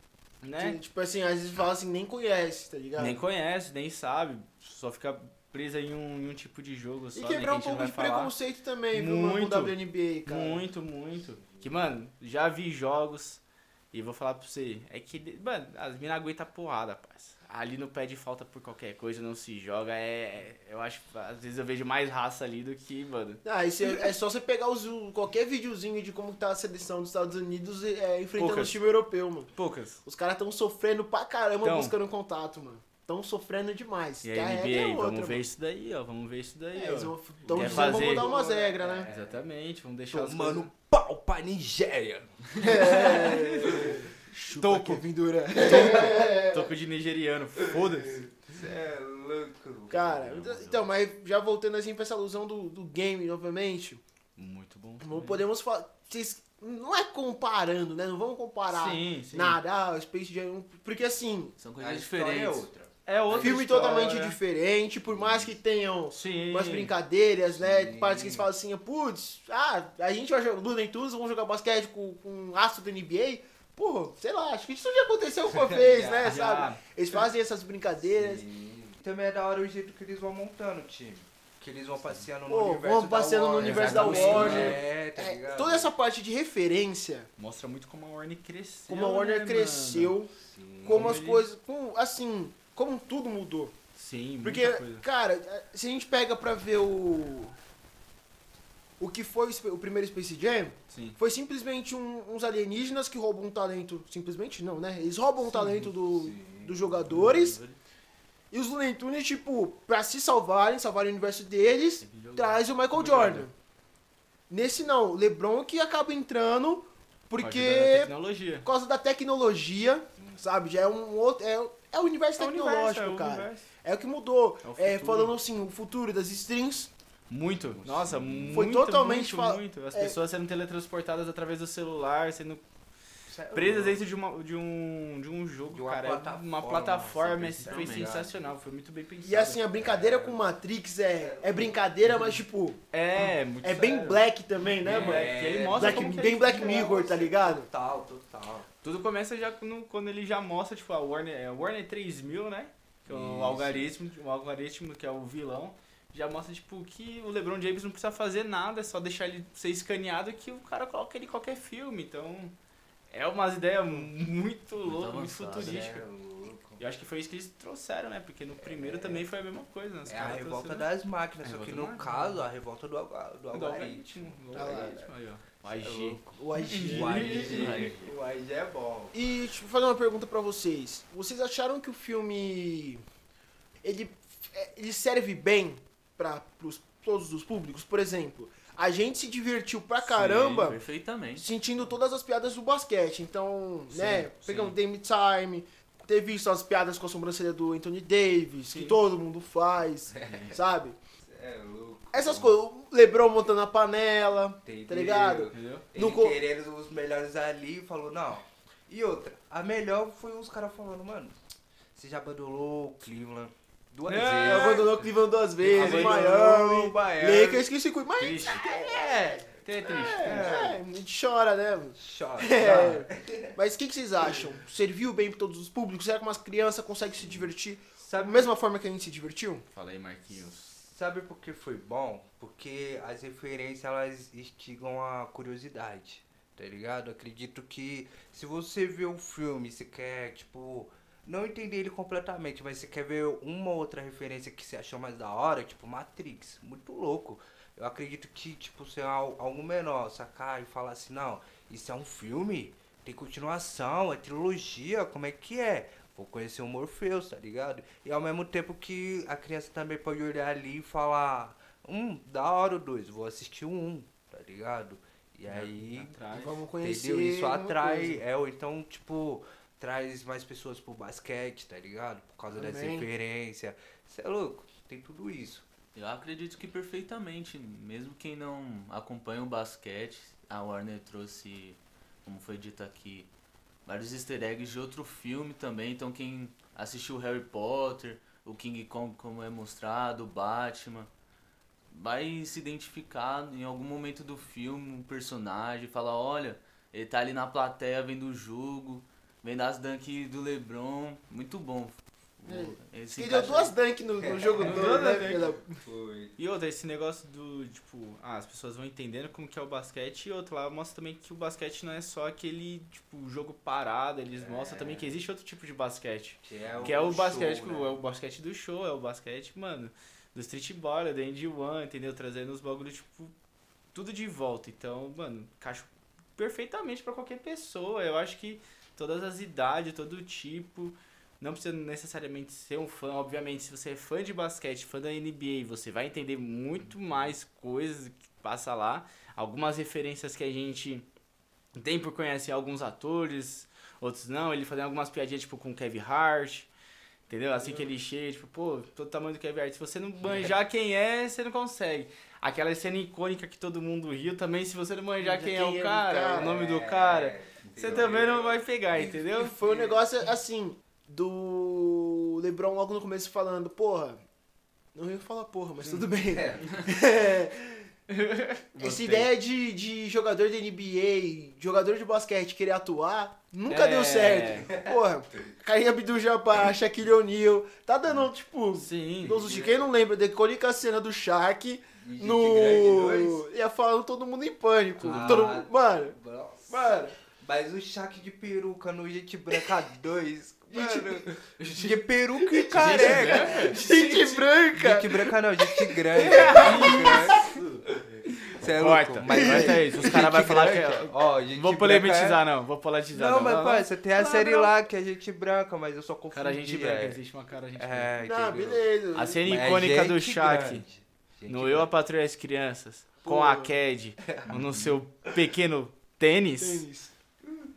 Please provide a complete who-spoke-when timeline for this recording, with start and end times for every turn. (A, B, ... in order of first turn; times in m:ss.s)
0:00.4-0:00.8 A
0:00.6-0:03.2 B
0:03.0-0:08.3 A
0:07.1-0:10.6 B
0:08.9-0:23.4 A
0:23.4-0:29.5 B
0:28.4-0:28.8 A
0:29.6-0:30.0 A
0:30.0-0:35.4 B
0:31.6-0:32.0 A
0:34.2-0:38.3 A
0:36.7-0:39.1 B
0:37.4-0:39.4 C
0:39.0-0:40.7 A
0:40.1-0:44.0 C
0:42.6-0:46.6 B
0:42.8-0:43.8 A
0:44.5-0:45.0 A
0:44.6-0:44.9 C
0:45.6-0:46.2 C
0:46.4-0:48.2 A
0:48.4-0:50.2 C
0:49.9-0:54.0 B
0:50.1-0:50.8 D
0:54.4-0:55.4 A
0:55.0-1:01.6 B
0:58.7-0:59.6 A
1:01.6-1:02.6 D
1:01.8-1:04.2 C
1:03.0-1:04.4 A
1:03.3-1:18.4 B
1:05.1-1:05.5 C
1:06.1-1:06.9 A
1:07.6-1:08.5 C
1:15.5-1:16.5 C
1:16.2-1:16.8 A
1:18.1-1:25.9 C
1:22.4-1:27.3 B
1:23.6-1:24.8 A
1:24.2-1:24.7 D
1:27.4-1:30.2 A
1:28.9-1:30.3 B
1:30.4-1:31.1 C
1:30.8-1:33.8 B
1:30.9-1:31.4 A
1:34.0-1:35.0 A
1:34.4-1:37.6 B
1:39.0-1:47.6 B
1:40.9-1:41.2 A
1:46.0-1:46.8 C
1:47.1-1:47.8 D
1:48.5-1:53.5 B
1:52.0-1:52.6 D
1:52.9-1:53.5 A
1:54.5-1:58.1 B
1:57.4-1:58.7 A
1:58.6-2:06.9 B
2:02.4-2:03.7 A
2:04.6-2:05.4 A
2:07.3-2:12.6 A
2:07.7-2:08.5 C
2:08.5-2:10.2 B
2:13.3-2:14.0 C
2:13.5-2:19.6 A
2:15.7-2:18.5 C
2:17.6-2:18.2 D
2:19.2-2:22.8 B
2:19.8-2:20.4 C
2:21.2-2:21.8 C
2:22.9-2:24.2 A
2:23.6-2:27.7 B
2:24.8-2:26.8 A
2:24.8-2:28.7 C
2:28.8-2:42.5 A
2:33.0-2:33.9 C
2:43.1-2:46.0 A
2:44.8-2:46.0 D
2:45.6-2:46.8 C
2:46.8-2:50.9 A
2:48.6-2:49.2 C
2:50.0-2:55.1 C
2:51.4-2:52.4 A
2:53.5-2:57.9 A
2:54.5-2:55.0 B
2:55.6-2:59.2 C
2:56.3-2:57.8 B
2:57.4-2:58.1 D
2:59.1-3:03.0 B
3:03.8-3:10.8 B
3:10.1-3:11.4 D
3:11.3-3:21.0 B
3:13.9-3:14.8 A
3:18.7-3:19.0 A
3:20.1-3:20.5 C
3:20.2-3:20.6 A
3:21.2-3:22.6 C
3:22.1-3:26.4 B
3:24.6-3:31.4 C
3:25.5-3:25.9 A
3:31.9-3:35.1 C
3:34.0-3:34.9 A
3:34.3-3:49.6 B
3:35.6-3:37.6 C
3:35.6-3:36.4 A
3:38.2-3:38.7 A
3:38.5-3:39.6 C
3:39.6-3:40.5 A
3:40.1-3:40.8 C
3:42.0-3:43.5 C
3:48.0-3:48.5 C
3:49.7-3:50.7 A
3:50.7-4:26.2 C
4:25.5-4:26.6 A
4:26.3-4:28.2 B
4:26.8-4:35.6 C
4:32.5-4:33.1 B
4:35.9-4:43.3 D
4:43.8-4:51.1 D
4:51.9-5:03.7 D
5:02.5-5:05.8 B
5:04.2-5:05.1 C
5:04.6-5:05.5 A
5:05.8-5:06.4 C
5:06.4-5:23.3 A
5:14.4-5:15.1 C
5:16.4-5:17.9 C
5:23.9-5:41.1 A
5:41.8-5:46.7 A
5:47.3-5:59.6 A
5:55.2-5:56.6 B
5:56.4-5:58.6 C
5:59.3-6:04.2 B
5:59.6-6:00.0 C
6:04.9-6:07.9 B
6:06.3-6:06.8 C
6:08.1-6:09.3 A
6:08.8-6:26.2 B
6:13.7-6:14.7 A
6:18.8-6:19.4 A
6:19.3-6:19.8 C
6:22.0-6:23.4 C
6:25.0-6:25.5 A
6:25.0-6:37.6 C
6:26.7-6:27.1 B
6:30.7-6:31.2 B
6:32.4-6:37.6 B
6:32.7-6:34.0 A
6:36.2-6:37.8 A
6:38.5-6:42.4 C
6:38.6-6:44.7 A
6:39.3-6:40.1 B
6:43.1-6:47.2 C
6:46.3-6:48.1 A
6:47.8-6:48.8 C
6:48.2-6:49.5 B
6:49.1-6:50.8 A
6:49.4-6:51.9 C
6:51.5-6:56.8 A
6:53.2-6:53.7 B
6:54.3-6:55.0 C
6:56.6-6:57.1 B